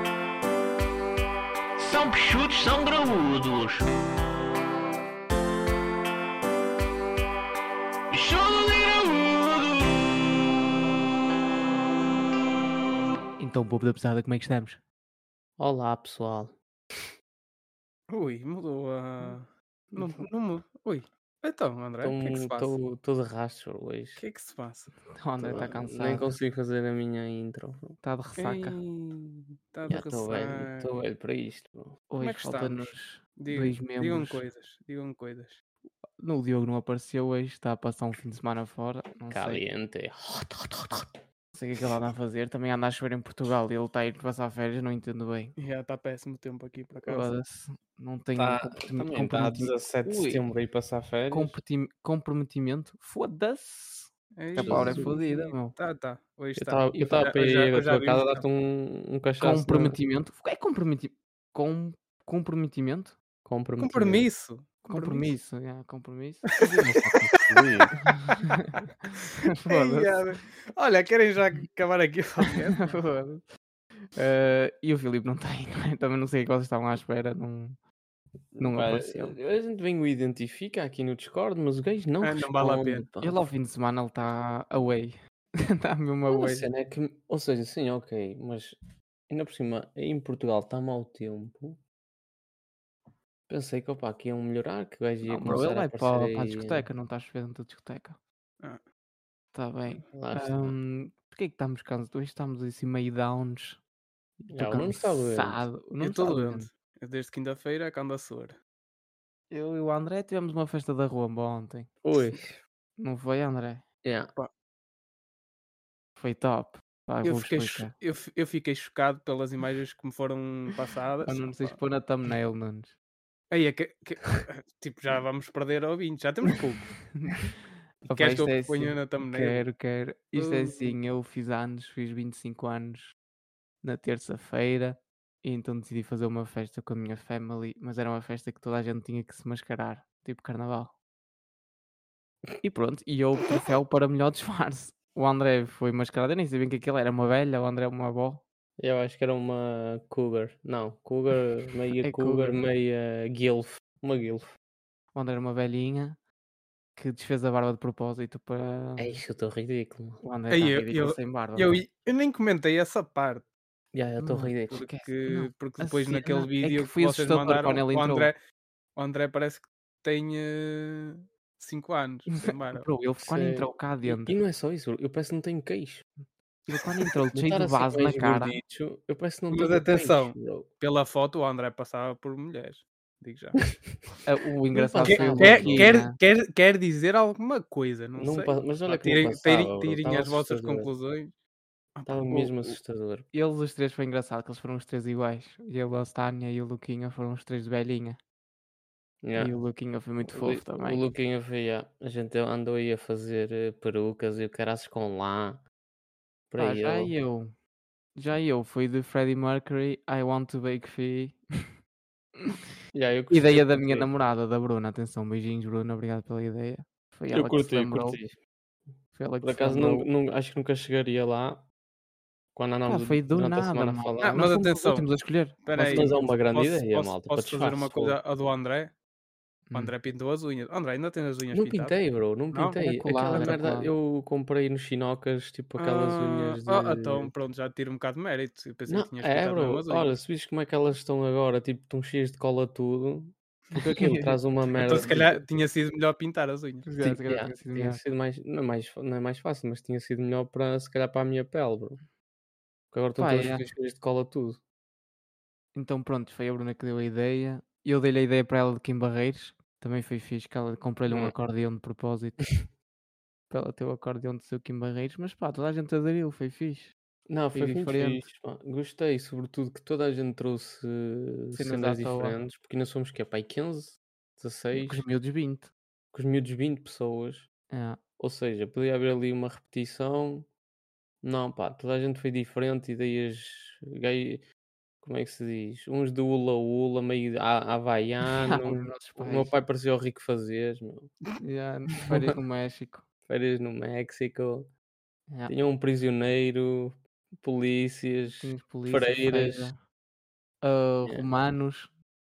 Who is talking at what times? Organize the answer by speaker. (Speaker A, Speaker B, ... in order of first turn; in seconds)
Speaker A: 1.8-3.8, 8.1-10.0
Speaker B: 13.4-14.8, 25.2-26.3, 28.0-28.8, 32.1-34.4, 36.0-39.6, 41.5-45.5, 47.1-50.5, 51.3-55.8, 56.9-57.3, 59.4-63.2, 64.9-66.5, 68.1-68.7, 69.5-70.2, 72.8-73.4, 74.1-77.8, 78.6-79.4, 83.2-85.2, 85.8-86.7, 95.2-98.2, 99.5-103.8, 104.4-106.7, 109.5-111.9, 113.0-113.8, 116.2-117.9, 121.2-123.0, 127.2-127.5, 128.0-133.1, 133.8-141.0, 142.6-148.4, 152.0-152.6, 155.1-156.2, 157.0-159.2, 160.2-161.8, 164.2-168.3, 172.4-174.3, 176.7-178.6, 184.2-186.2, 193.3-198.2, 199.4-201.0, 206.6-207.5, 208.2-211.4, 213.3-218.2, 219.1-220.1, 222.9-226.4, 229.7-229.9, 232.8-233.9, 243.9-244.4, 246.9-248.0, 253.2-253.7, 255.7-262.4, 263.5-266.9, 267.5-268.3, 271.5-272.4, 274.7-275.7, 277.7-278.0, 288.4-289.5, 291.4-293.1, 298.4-299.8, 300.6-301.9
Speaker C: 15.6-16.6, 22.0-24.2, 25.4-28.0, 29.9-32.0, 39.3-41.2, 48.4-51.6, 54.6-55.1, 56.6-60.0, 63.5-64.3, 66.6-67.9, 78.5-83.4, 86.3-88.8, 89.3-91.8, 93.5-96.9, 100.1-100.8, 104.5-105.7, 112.0-112.6, 114.0-114.3, 148.8-154.5, 159.0-160.2, 163.9-164.8, 173.2-176.1, 177.3-180.7, 184.8-186.0, 188.2-190.9, 192.1-193.3, 199.2-199.5, 200.2-205.6, 206.5-207.1, 212.9-214.1, 217.3-218.4, 219.4-221.7, 222.6-224.4, 225.9-228.2, 231.5-237.3, 238.9-245.4, 247.0-252.0, 252.9-254.6, 261.1-261.3, 267.3-275.0, 276.1-277.5, 278.2-280.5, 281.2-284.4, 285.0-291.1, 293.3-294.7, 295.5-299.7
Speaker D: 18.1-22.8, 24.2-24.9, 28.4-30.9, 32.2-35.6, 45.6-47.3, 54.4-58.4, 63.8-65.3, 66.5-67.6, 69.5-73.0, 82.2-83.0, 106.0-108.6, 117.2-121.8, 123.5-127.0, 128.1-129.7, 130.4-131.0, 160.5-163.5, 164.7-168.4, 169.0-172.9, 179.5-183.6, 185.1-191.3, 191.9-192.5, 224.2-225.1, 225.6-228.9, 229.7-232.0, 232.5-232.8, 233.3-233.6, 235.8-240.1, 244.8-246.9